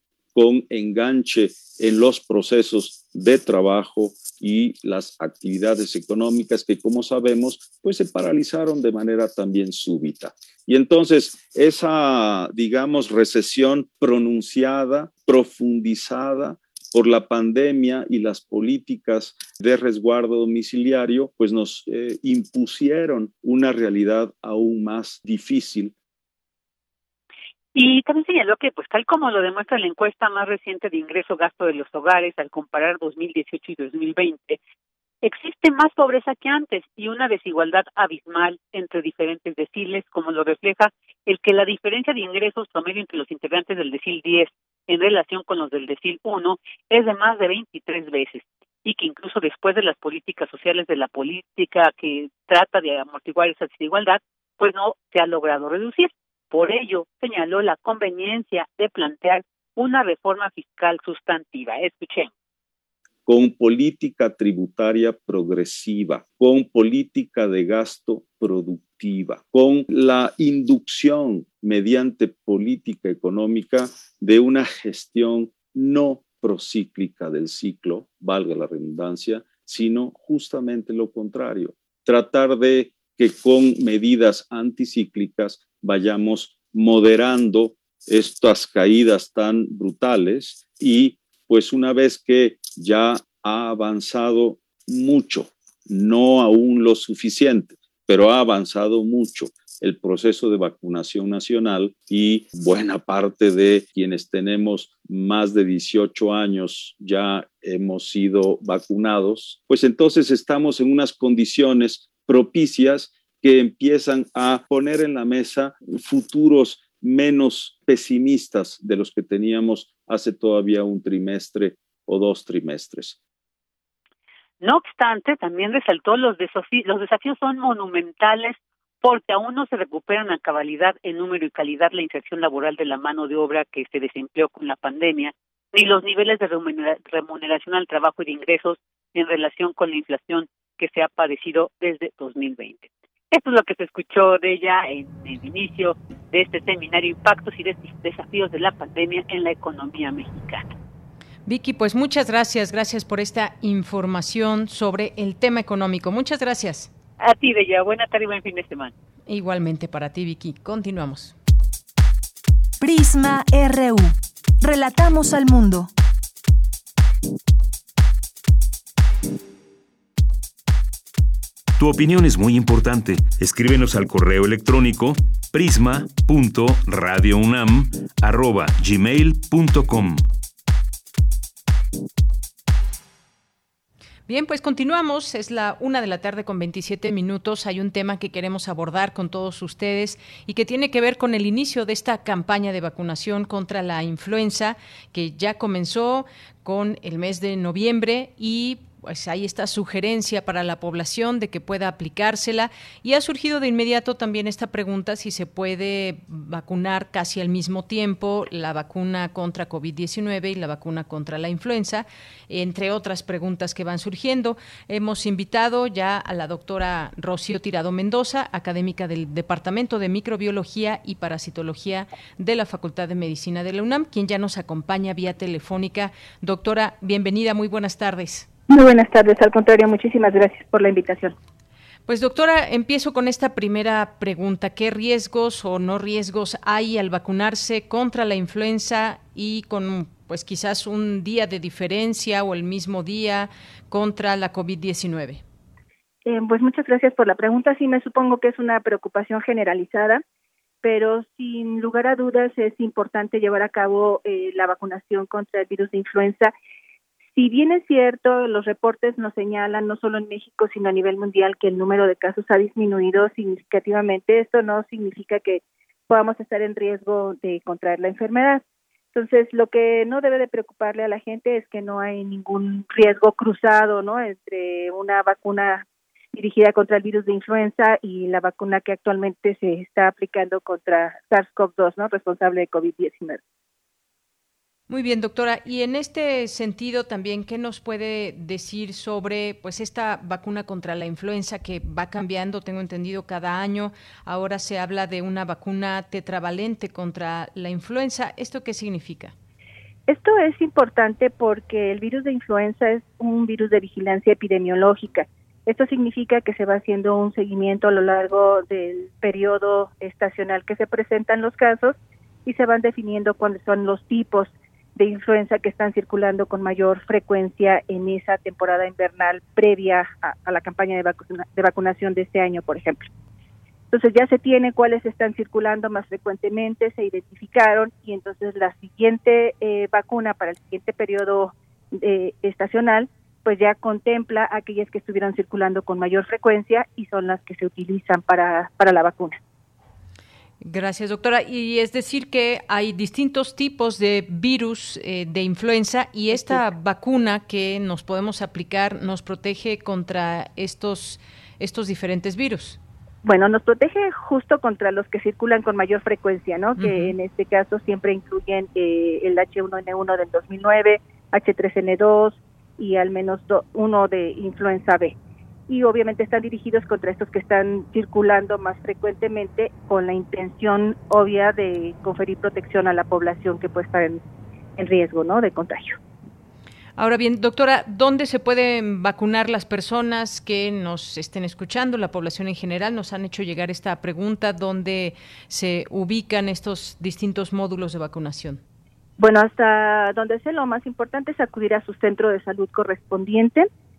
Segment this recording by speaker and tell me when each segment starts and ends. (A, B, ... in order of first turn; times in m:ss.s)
0:00.4-0:26.0 A
0:27.8-0:34.6 B
0:35.2-1:02.3 B
1:03.3-2:03.2 A
2:04.6-2:30.7 B
2:31.5-2:36.9 C
2:37.2-2:38.9 B
2:39.3-2:41.4 C
2:42.8-2:45.9 D
2:51.8-3:00.2 E
3:04.3-3:48.5 C
3:48.7-3:51.4 F
3:52.1-4:05.4 C
4:06.3-4:10.2 F
4:10.8-4:16.5 F
4:17.3-4:43.4 F
4:44.9-4:59.3 C
5:00.1-5:23.1 F
5:23.9-5:39.4 F
5:40.6-5:52.8 C
5:46.3-5:46.6 F
5:53.2-6:05.2 F
5:56.8-5:57.2 C
6:05.7-6:14.2 F
6:14.8-6:16.0 F
6:17.0-6:28.6 C
6:29.2-6:33.7 F